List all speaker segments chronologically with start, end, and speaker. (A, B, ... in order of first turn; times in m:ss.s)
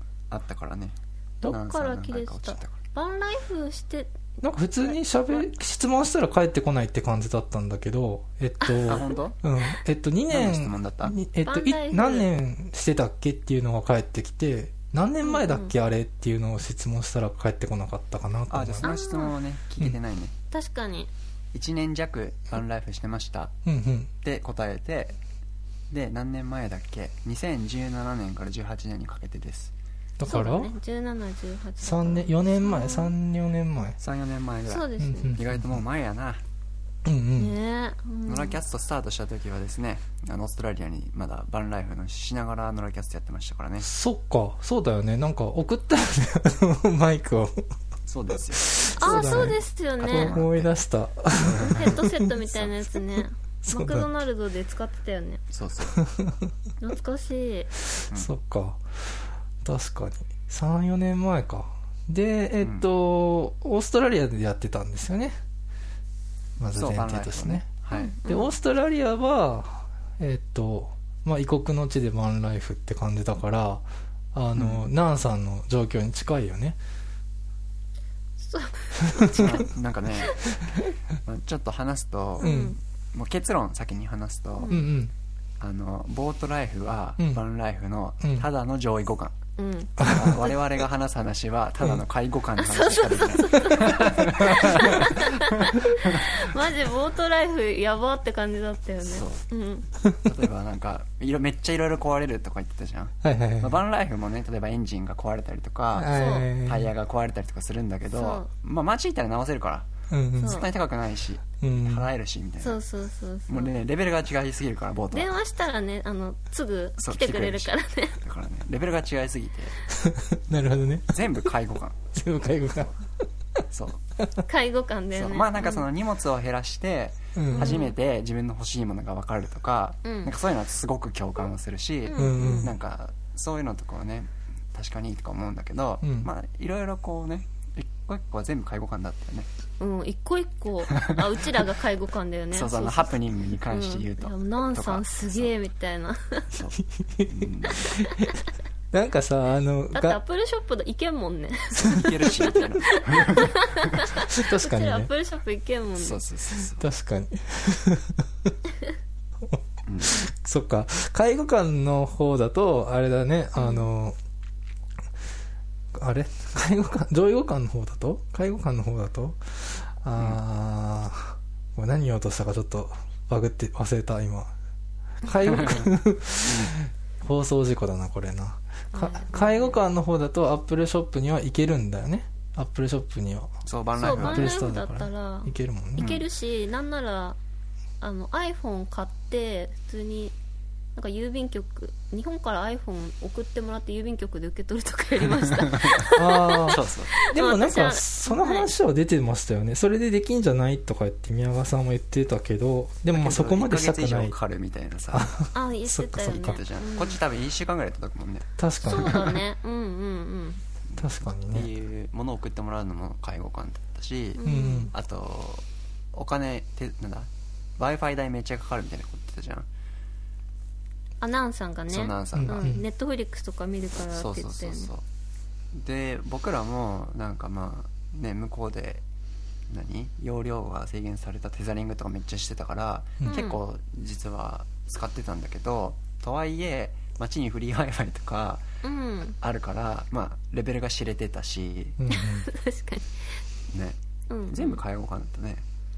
0:00.3-0:02.8 A
0:01.4-0:05.5 B
0:04.4-0:18.9 C
0:08.6-0:09.0 B
0:08.8-0:09.4 A
0:10.3-0:11.2 A
0:11.4-0:12.3 B
0:15.2-0:15.7 B
0:18.5-0:20.3 A
0:18.8-0:19.4 B
0:20.5-0:21.1 B
0:21.5-0:23.5 A
0:23.6-0:24.1 C
0:24.2-0:25.2 A
0:25.9-0:29.7 A
0:30.2-0:30.7 C
0:30.2-0:33.1 B
0:31.8-0:34.0 C
0:34.0-0:36.4 A
0:34.7-0:35.4 B
0:35.0-0:35.8 C
0:37.0-0:37.6 C
0:37.3-0:38.6 B
0:38.2-0:43.9 A
0:43.8-0:47.7 C
0:48.0-0:50.7 A
0:48.5-0:52.4 C
0:48.9-0:50.4 B
0:51.4-0:52.0 A
0:51.6-0:55.4 B
0:53.2-0:54.1 C
0:55.5-0:56.0 A
0:55.9-0:56.5 C
0:56.8-0:57.7 B
0:58.1-1:05.4 C
1:02.6-1:02.8 A
1:06.6-1:07.7 C
1:06.7-1:08.2 A
1:07.9-1:08.5 B
1:08.2-1:16.8 C
1:14.5-1:14.9 A
1:18.4-1:20.7 B
1:19.0-1:19.6 C
1:19.3-1:20.4 A
1:21.2-1:24.8 A
1:22.4-1:22.8 B
1:22.4-1:22.8 C
1:24.6-1:24.9 B
1:24.7-1:25.1 C
1:25.6-1:29.4 A
1:29.6-1:30.5 B
1:30.0-1:30.3 C
1:30.0-1:36.3 A
1:32.6-1:39.9 B
1:39.0-1:39.4 A
1:40.2-1:52.8 A
1:43.2-1:43.8 C
1:45.9-1:46.9 C
1:46.1-1:46.5 B
1:48.1-1:48.5 B
1:50.1-1:50.6 C
1:50.4-1:50.7 B
1:51.6-1:52.1 C
1:52.6-1:53.7 B
1:53.5-1:55.3 A
1:55.1-1:58.2 B
1:57.0-1:59.8 A
2:00.0-2:01.4 C
2:01.1-2:02.0 A
2:02.1-2:02.9 C
2:03.7-2:04.0 A
2:04.4-2:05.9 B
2:05.1-2:19.5 A
2:07.3-2:07.8 C
2:07.5-2:08.0 B
2:10.0-2:10.3 B
2:12.1-2:12.7 B
2:12.2-2:12.7 C
2:16.0-2:16.3 C
2:19.8-2:26.5 B
2:20.9-2:21.2 A
2:22.5-2:25.5 A
2:26.5-2:27.9 A
2:27.0-2:28.3 C
2:27.8-2:28.1 B
2:28.9-2:30.2 C
2:29.9-2:36.2 B
2:31.7-2:34.1 A
2:34.3-2:35.1 C
2:36.0-2:36.8 A
2:36.8-2:38.5 C
2:39.5-2:44.2 C
2:39.8-2:40.2 A
2:43.6-2:43.9 B
2:45.9-2:54.5 C
2:55.2-3:06.2 C
2:55.5-2:55.9 A
2:56.4-2:56.7 A
2:58.9-2:59.8 B
3:03.6-3:04.6 A
3:04.0-3:07.4 B
3:06.0-3:06.2 A
3:08.0-3:10.3 B
3:10.9-3:18.7 B
3:15.7-3:16.1 A
3:16.1-3:24.3 C
3:16.6-3:17.1 A
3:23.1-3:25.4 A
3:25.1-3:26.6 C
3:25.5-3:27.2 B
3:26.2-3:29.1 A
3:28.6-3:29.4 C
3:28.8-3:30.6 B
3:30.9-3:39.7 A
3:31.0-3:31.7 C
3:34.4-3:34.9 B
3:34.4-3:34.9 C
3:41.2-3:44.9 B
3:41.9-3:42.7 A
3:42.4-3:42.8 C
3:44.1-3:45.0 A
3:45.7-3:49.0 A
3:49.7-3:58.7 A
3:53.2-3:53.6 B
3:58.8-3:59.4 B
3:59.4-4:02.0 A
4:02.0-4:02.5 C
4:02.1-4:03.4 B
4:03.7-4:05.6 A
4:04.3-4:04.8 B